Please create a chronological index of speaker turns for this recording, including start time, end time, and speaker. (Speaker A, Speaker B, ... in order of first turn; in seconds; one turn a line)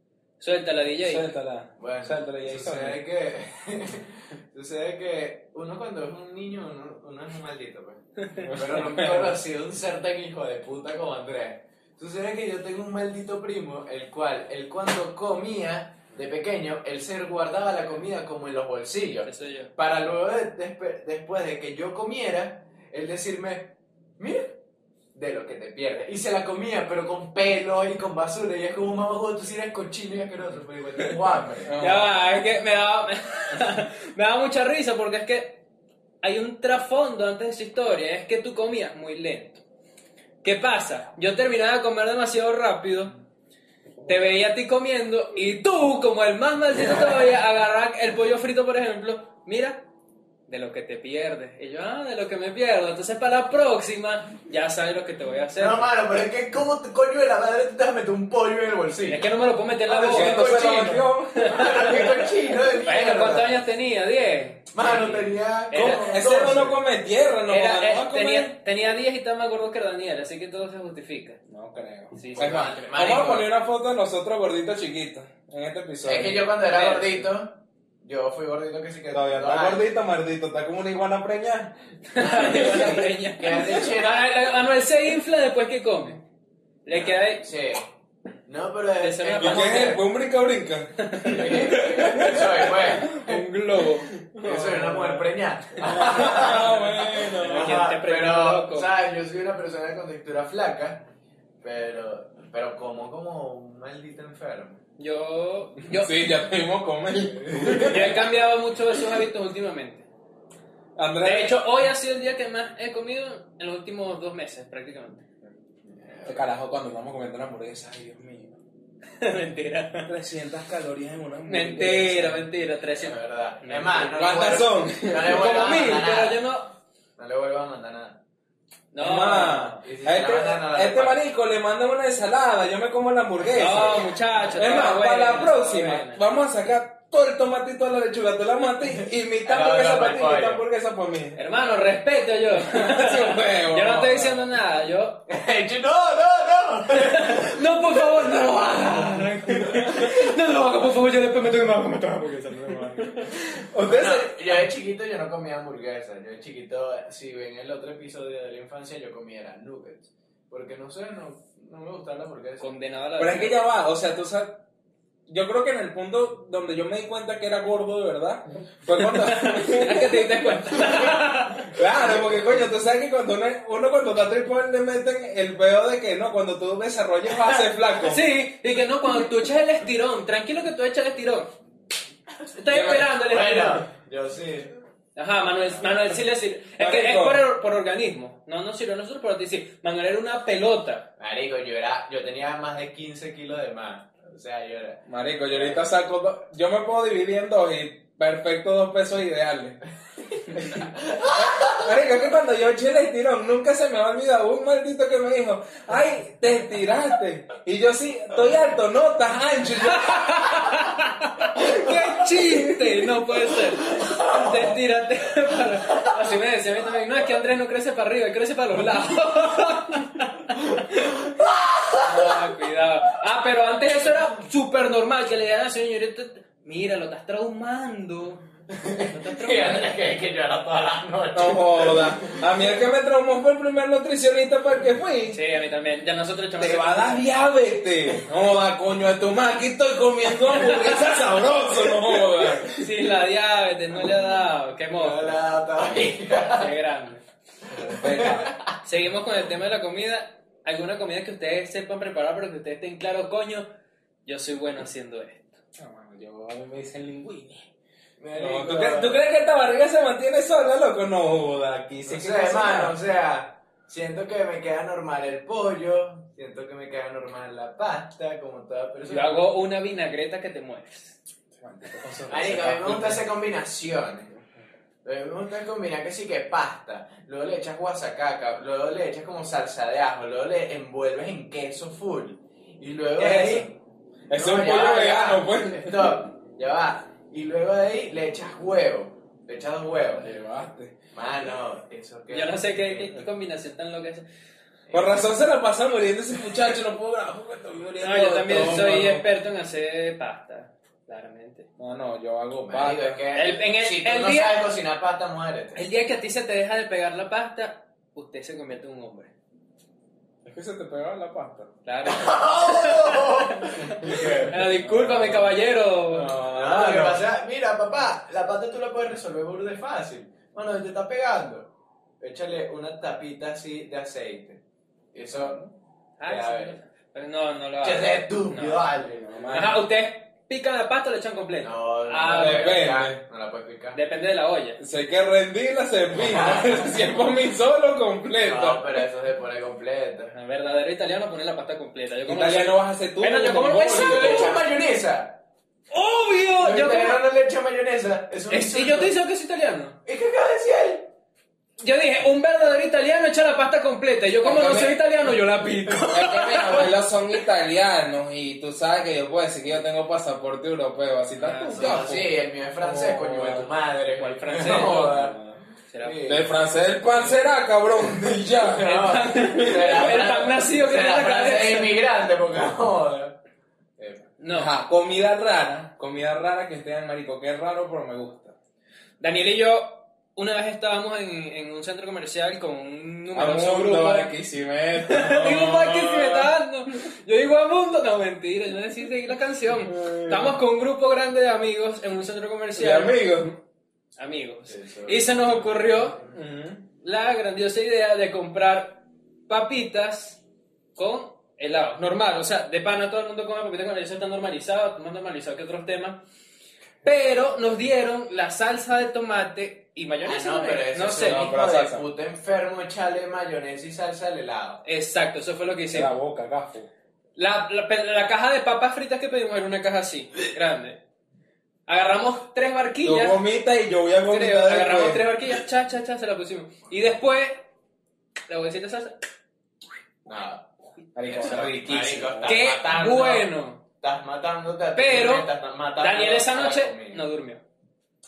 Speaker A: 0.4-1.3
Speaker B: 1.0-3.0
Speaker C: 1.8-24.6
Speaker A: 8.2-8.6
Speaker B: 8.4-9.3
Speaker A: 19.2-19.7
Speaker C: 25.1-31.8
Speaker B: 31.6-32.2
Speaker A: 31.8-35.6
Speaker A: 36.2-39.6
Speaker A: 40.4-43.1
Speaker A: 44.0-49.9
Speaker A: 50.5-55.9
Speaker C: 55.5-59.3
Speaker A: 59.1-60.5
Speaker C: 59.9-63.6
Speaker B: 60.1-62.2
Speaker A: 61.4-62.2
Speaker A: 62.8-66.2
Speaker C: 64.7-66.8
Speaker B: 65.7-68.5
Speaker A: 67.5-71.4
Speaker B: 71.5-76.5
Speaker A: 72.1-72.6
Speaker C: 72.3-73.5
Speaker C: 76.0-79.8
Speaker A: 76.6-77.3
Speaker B: 79.1-83.1
Speaker A: 82.1-86.2
Speaker C: 82.2-84.4
Speaker A: 86.8-87.4
Speaker C: 86.9-87.9
Speaker C: 88.5-90.0
Speaker A: 89.0-90.0
Speaker B: 89.4-97.8
Speaker A: 91.0-92.1
Speaker C: 91.2-93.4
Speaker A: 93.2-94.1
Speaker C: 94.4-101.1
Speaker A: 95.8-98.9
Speaker C: 101.6-104.8
Speaker A: 105.0-106.3
Speaker B: 105.9-108.2
Speaker C: 107.5-108.1
Speaker A: 107.8-110.0
Speaker B: 111.0-111.6
Speaker A: 111.2-115.2
Speaker C: 115.9-116.5
Speaker B: 116.2-118.6
Speaker A: 119.2-120.1
Speaker B: 120.0-122.5
Speaker A: 121.4-124.3
Speaker C: 123.0-126.4
Speaker B: 124.1-125.8
Speaker A: 125.2-126.7
Speaker C: 127.2-128.2
Speaker A: 128.9-129.8
Speaker B: 129.0-141.4
Speaker C: 129.8-131.2
Speaker C: 133.4-134.1
Speaker A: 133.5-136.2
Speaker C: 138.9-140.6
Speaker A: 141.3-145.2
Speaker B: 142.5-144.5
Speaker C: 145.3-148.8
Speaker A: 146.9-153.3
Speaker B: 149.5-150.1
Speaker B: 152.4-154.5
Speaker C: 153.8-162.7
Speaker A: 162.6-163.6
Speaker B: 163.2-164.6
Speaker B: 165.3-178.3
Speaker A: 169.0-171.8
Speaker C: 171.9-172.4
Speaker A: 178.0-181.5
Speaker A: 182.5-183.8
Speaker B: 182.7-183.2
Speaker C: 183.2-184.7
Speaker A: 185.1-191.1
Speaker B: 186.8-187.4
Speaker C: 191.2-195.8
Speaker B: 195.1-199.8
Speaker B: 200.5-210.5
Speaker C: 201.0-201.9
Speaker A: 209.9-220.8
Speaker B: 211.6-213.1
Speaker C: 213.8-214.5
Speaker C: 215.9-216.2
Speaker C: 220.8-222.4
Speaker A: 222.0-228.4
Speaker C: 228.7-232.4
Speaker A: 229.0-229.9
Speaker B: 231.3-235.4
Speaker A: 235.3-237.2
Speaker B: 236.6-242.9
Speaker A: 240.5-241.3
Speaker A: 242.6-245.4
Speaker C: 244.9-246.7
Speaker A: 246.5-247.2
Speaker B: 247.7-248.5
Speaker C: 247.8-248.6
Speaker A: 248.8-253.7
Speaker A: 254.2-255.6
Speaker B: 255.8-257.7
Speaker C: 258.2-259.2
Speaker B: 258.3-262.9
Speaker C: 262.1-269.4
Speaker A: 269.1-271.2
Speaker B: 271.6-273.2
Speaker C: 272.3-274.3
Speaker C: 275.0-283.8
Speaker B: 283.2-283.7
Speaker B: 284.3-286.3
Speaker C: 284.3-290.3
Speaker B: 290.1-290.9
Speaker C: 291.1-292.7
Speaker A: 292.3-294.2
Speaker B: 292.8-293.2
Speaker C: 294.9-295.3
Speaker B: 294.9-299.3
Speaker A: 298.0-301.7
Speaker C: 298.5-298.9
Speaker B: 301.8-303.2
Speaker C: 302.6-305.8
Speaker A: 303.3-304.7
Speaker A: 305.7-309.3
Speaker B: 310.4-311.7
Speaker A: 311.8-316.4
Speaker C: 312.0-314.5
Speaker B: 313.8-317.3
Speaker C: 316.5-324.6
Speaker C: 325.1-325.6
Speaker B: 325.3-325.7
Speaker A: 326.2-328.9
Speaker C: 326.2-326.8
Speaker C: 327.8-329.4
Speaker B: 329.1-329.9
Speaker A: 329.5-332.8
Speaker C: 331.6-334.0
Speaker B: 332.3-333.2
Speaker A: 333.9-334.8
Speaker B: 334.8-339.0
Speaker C: 336.1-336.9
Speaker C: 338.4-340.3
Speaker A: 340.3-344.5
Speaker B: 342.3-344.6
Speaker C: 343.9-345.4
Speaker A: 345.9-347.2
Speaker C: 346.6-349.1
Speaker A: 348.5-350.0
Speaker C: 350.0-351.1
Speaker A: 351.8-356.9
Speaker C: 354.4-355.0
Speaker B: 354.6-354.9
Speaker C: 355.9-356.9
Speaker B: 356.0-363.7
Speaker A: 361.4-362.1
Speaker C: 361.7-365.4
Speaker A: 364.1-365.3
Speaker B: 364.6-365.6
Speaker A: 365.9-366.2
Speaker C: 366.0-367.4
Speaker B: 366.2-370.0
Speaker C: 368.0-373.4
Speaker A: 368.8-372.0
Speaker C: 374.0-374.3
Speaker A: 374.4-374.7
Speaker B: 374.5-378.6
Speaker A: 379.2-384.3
Speaker B: 383.3-386.5
Speaker A: 385.1-393.2
Speaker B: 389.8-390.6
Speaker B: 392.7-393.6
Speaker A: 394.1-396.2
Speaker C: 394.7-396.2
Speaker B: 396.3-396.9
Speaker A: 397.0-400.4
Speaker A: 400.9-406.2
Speaker A: 407.0-411.4
Speaker C: 410.2-414.8
Speaker B: 411.1-412.0
Speaker A: 414.8-416.2
Speaker B: 415.9-416.9
Speaker A: 417.4-421.0
Speaker A: 421.9-423.4
Speaker B: 423.0-425.3
Speaker A: 424.3-427.6
Speaker A: 428.5-429.1
Speaker C: 430.2-430.7
Speaker B: 431.1-432.6
Speaker C: 431.2-433.5
Speaker A: 431.3-431.8
Speaker A: 432.4-433.8
Speaker C: 434.0-437.2
Speaker A: 434.9-437.6